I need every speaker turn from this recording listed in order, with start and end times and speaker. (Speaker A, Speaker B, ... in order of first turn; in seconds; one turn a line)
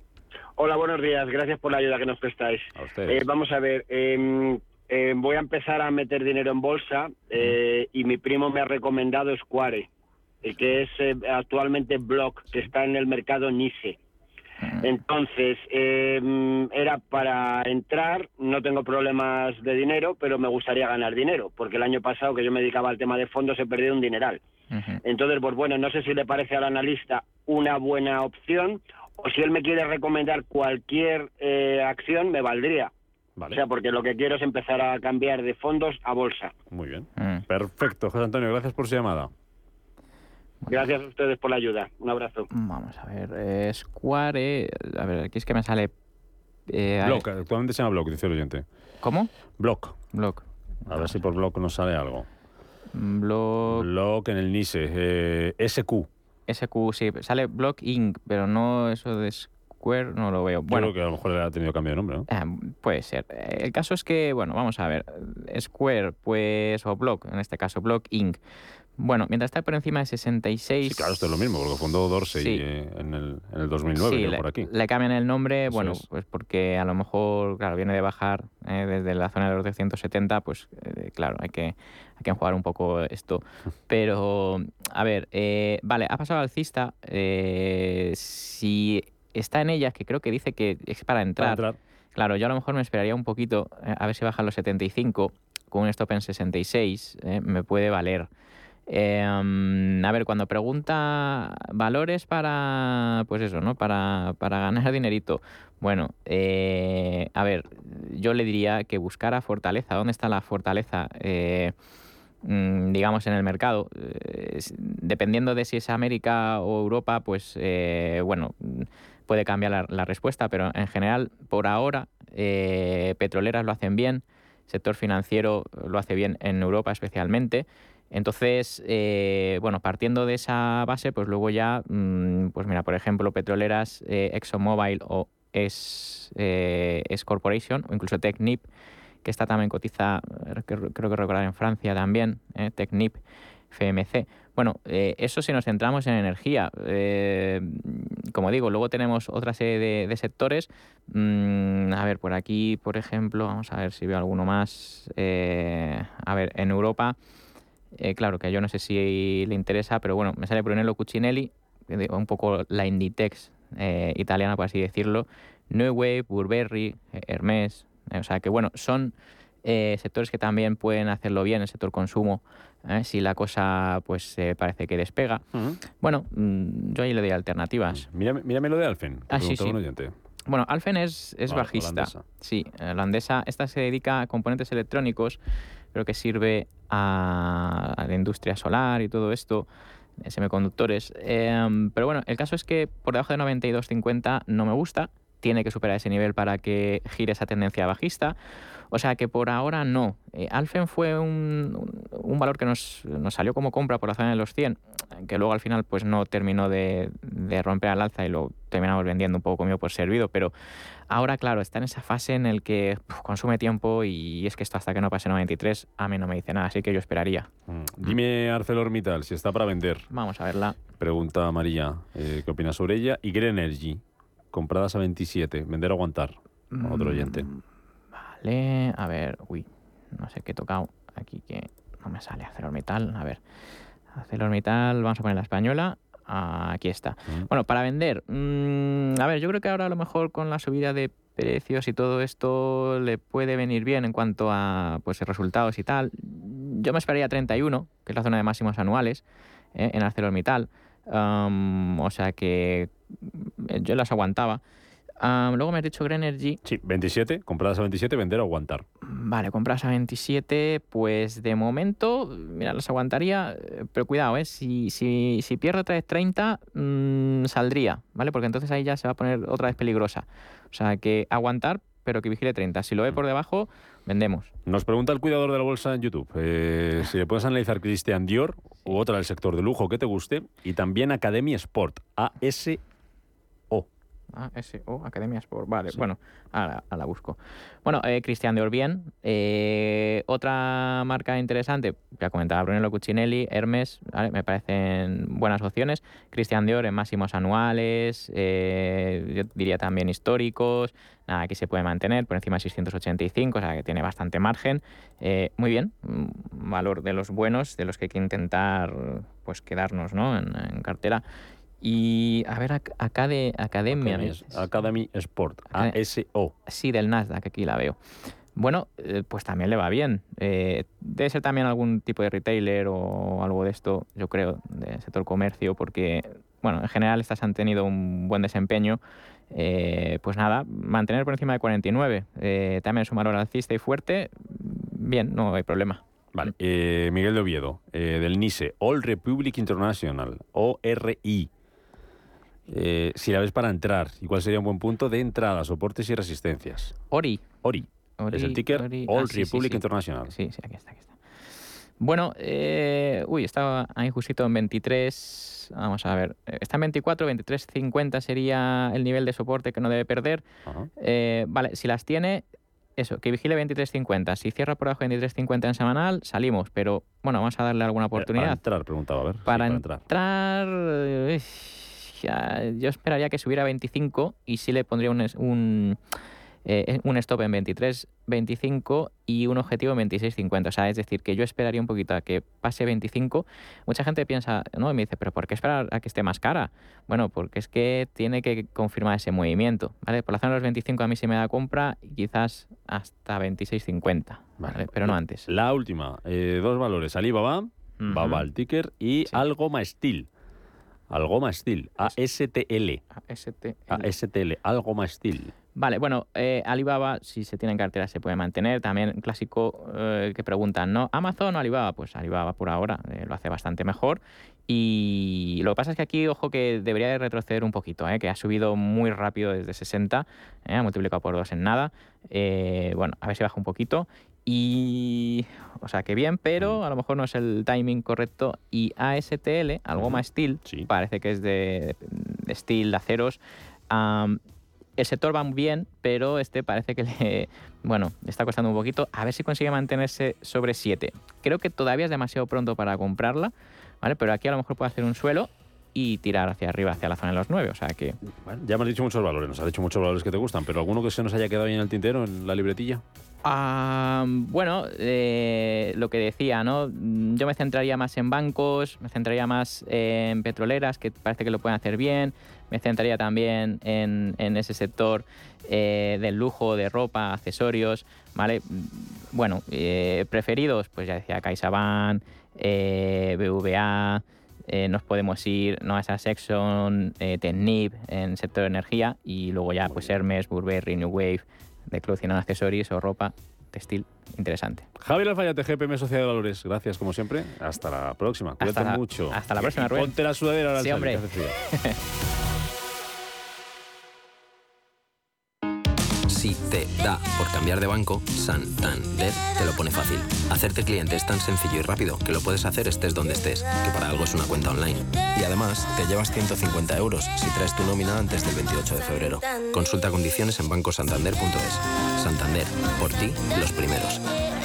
Speaker A: 0.6-9.9
Speaker B: 2.8-3.3
Speaker A: 10.4-14.0
Speaker A: 14.8-24.4
Speaker C: 24.7-25.0
Speaker A: 25.0-32.9
Speaker A: 33.5-36.5
Speaker B: 36.7-39.3
Speaker C: 37.2-37.4
Speaker A: 40.7-42.5
Speaker C: 42.5-45.9
Speaker C: 46.7-47.2
Speaker B: 47.0-48.6
Speaker C: 49.0-49.3
Speaker B: 49.6-50.0
Speaker C: 50.1-51.2
Speaker B: 50.9-52.3
Speaker C: 52.9-53.9
Speaker B: 53.7-56.1
Speaker C: 56.5-60.9
Speaker B: 60.7-62.3
Speaker C: 62.3-68.4
Speaker C: 69.0-71.1
Speaker B: 70.8-74.7
Speaker C: 72.3-72.6
Speaker C: 74.0-91.6
Speaker B: 75.7-76.0
Speaker B: 91.4-91.8
Speaker C: 92.2-98.3
Speaker C: 98.9-111.7
Speaker C: 112.4-138.7
Speaker C: 139.2-157.2
Speaker C: 157.9-178.1
Speaker B: 175.5-175.8
Speaker B: 177.9-180.1
Speaker C: 179.3-179.8
Speaker C: 180.5-185.4
Speaker B: 181.5-182.2
Speaker C: 185.9-189.7
Speaker C: 190.2-198.3
Speaker C: 198.9-210.5
Speaker C: 211.1-217.5
Speaker B: 217.7-220.1
Speaker C: 220.1-220.8
Speaker B: 221.0-224.0
Speaker B: 224.5-227.5
Speaker C: 226.7-227.6
Speaker C: 228.3-233.4
Speaker C: 234.1-249.2
Speaker C: 249.7-254.6
Speaker C: 255.2-256.6
Speaker B: 256.6-258.8
Speaker C: 259.0-274.5
Speaker B: 274.6-282.8
Speaker C: 284.3-311.2
Speaker C: 311.8-314.6
Speaker B: 313.9-316.5
Speaker C: 316.6-318.0
Speaker C: 318.6-329.0
Speaker C: 329.5-336.5
Speaker B: 336.3-341.5
Speaker B: 342.7-346.9
Speaker C: 347.1-347.5
Speaker B: 347.6-350.3
Speaker C: 348.2-351.1
Speaker C: 352.0-360.4
Speaker C: 361.0-362.4
Speaker C: 363.0-368.6
Speaker B: 368.1-370.0
Speaker C: 369.4-376.0
Speaker C: 376.6-395.5
Speaker B: 394.6-400.3
Speaker C: 398.0-398.5
Speaker B: 401.1-403.0
Speaker C: 403.2-404.1
Speaker B: 403.9-405.5
Speaker C: 405.7-434.4
Speaker B: 430.0-430.9
Speaker C: 435.0-448.2
Speaker B: 448.4-453.0
Speaker C: 453.4-484.9
Speaker B: 485.0-491.6
Speaker C: 488.6-490.2
Speaker C: 490.7-492.0
Speaker D: 496.3-514.2